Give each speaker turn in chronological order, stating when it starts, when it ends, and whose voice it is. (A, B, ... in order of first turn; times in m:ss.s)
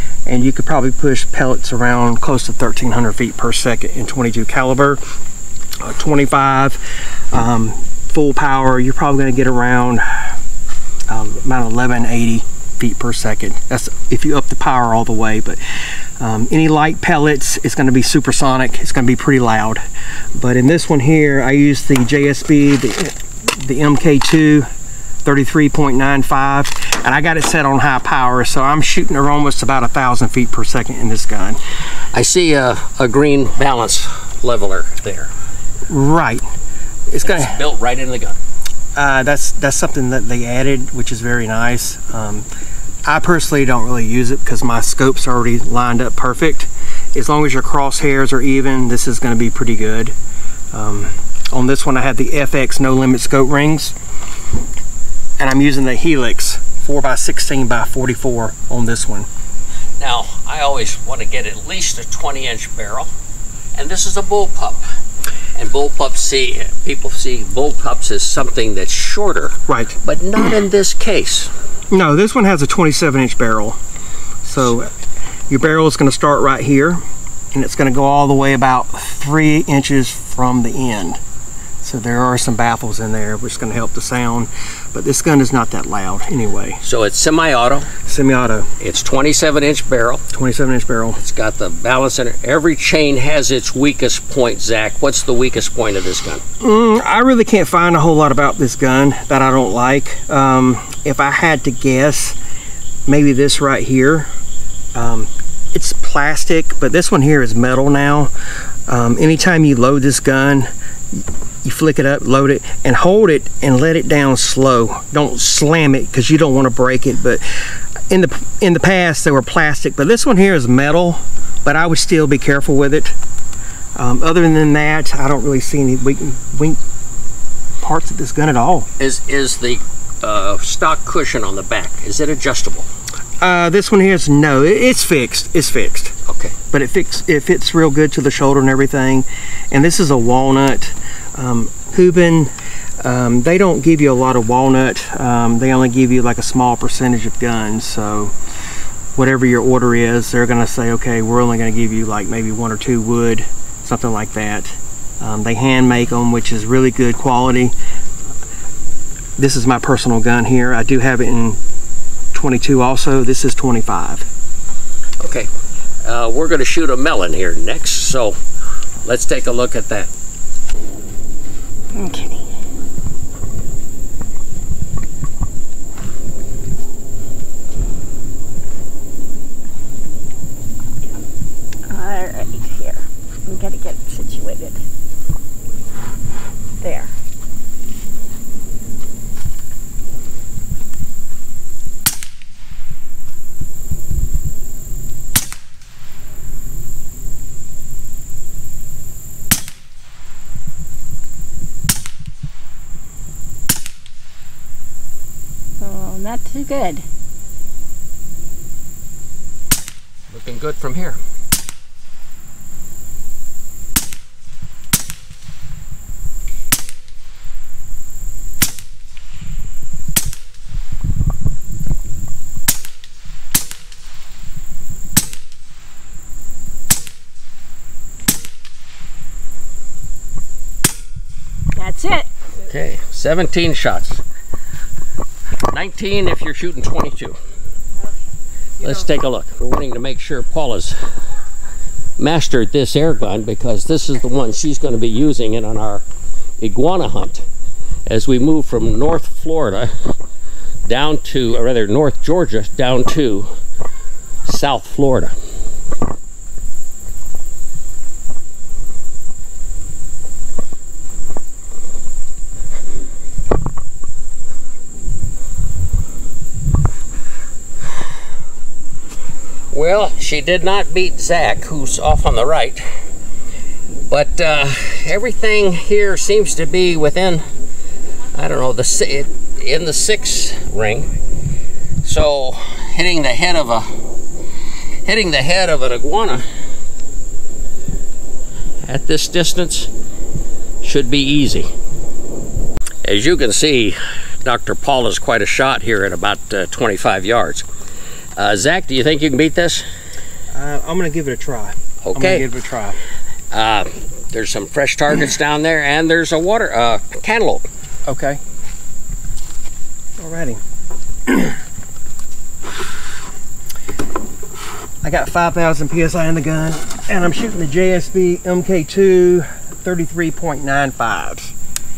0:00.2-0:05.0 A
0:05.8-0:10.3 A
0:11.1-0:15.6 A
0:16.2-0:19.8 A
0:20.3-0:24.6 A
0:25.2-0:31.6 A
0:32.1-0:35.3 B
0:35.9-0:36.4 A
0:37.1-0:37.6 A
0:37.2-0:38.4 B
0:39.0-0:42.4 A
0:43.0-0:50.1 A
0:50.7-0:53.9 A
0:55.4-0:59.3 A
1:00.0-1:03.1 B
1:03.7-1:04.8 B
1:05.6-1:11.5 B
1:09.7-1:10.0 A
1:11.9-1:13.8 A
1:14.4-1:14.9 A
1:15.5-1:17.0 A
1:17.5-1:21.2 A
1:21.8-1:26.8 A
1:26.8-1:27.9 B
1:28.0-1:28.7 A
1:28.8-1:30.2 B
1:30.3-1:31.2 A
1:31.2-1:36.4 B
1:36.6-1:42.4 A
1:43.1-1:44.3 A
1:44.9-1:48.3 A
1:48.9-1:57.4 A
1:58.1-2:03.1 A
2:04.0-2:06.8 A
2:07.8-2:08.9 A
2:09.0-2:12.9 B
2:13.4-2:16.1 A
2:16.3-2:16.5 B
2:16.7-2:28.3 A
2:29.2-2:37.7 A
2:39.4-2:41.6 A
2:42.3-2:44.2 A
2:45.2-2:45.5 B
2:46.0-2:48.4 B
2:49.0-2:50.1 B
2:51.9-2:52.4 C
3:01.9-3:04.8 C
3:06.8-3:07.1 C
3:25.8-3:27.0 C
3:30.3-3:31.2 B
3:51.8-3:52.3 C
3:52.6-3:54.2 B
3:55.6-3:57.4 B
3:58.8-4:01.0 B
4:02.2-4:06.0 B
4:06.6-4:07.4 B
4:08.1-4:09.9 B
4:10.8-4:13.5 B
4:14.4-4:15.3 B
4:29.7-4:32.8 B
4:34.1-4:37.4 B
4:38.3-4:41.1 B
4:42.0-4:43.8 B
4:45.0-4:46.4 B
4:48.8-4:49.9 B
4:50.8-4:51.7 B
4:53.0-4:57.6 B
4:58.4-4:59.8 B
5:00.5-5:03.0 A
5:02.0-5:02.5 B
5:03.5-5:07.6 B
5:08.0-5:08.4 A
5:10.2-5:10.6 A
5:11.3-5:11.6 A
5:15.0-5:21.5 A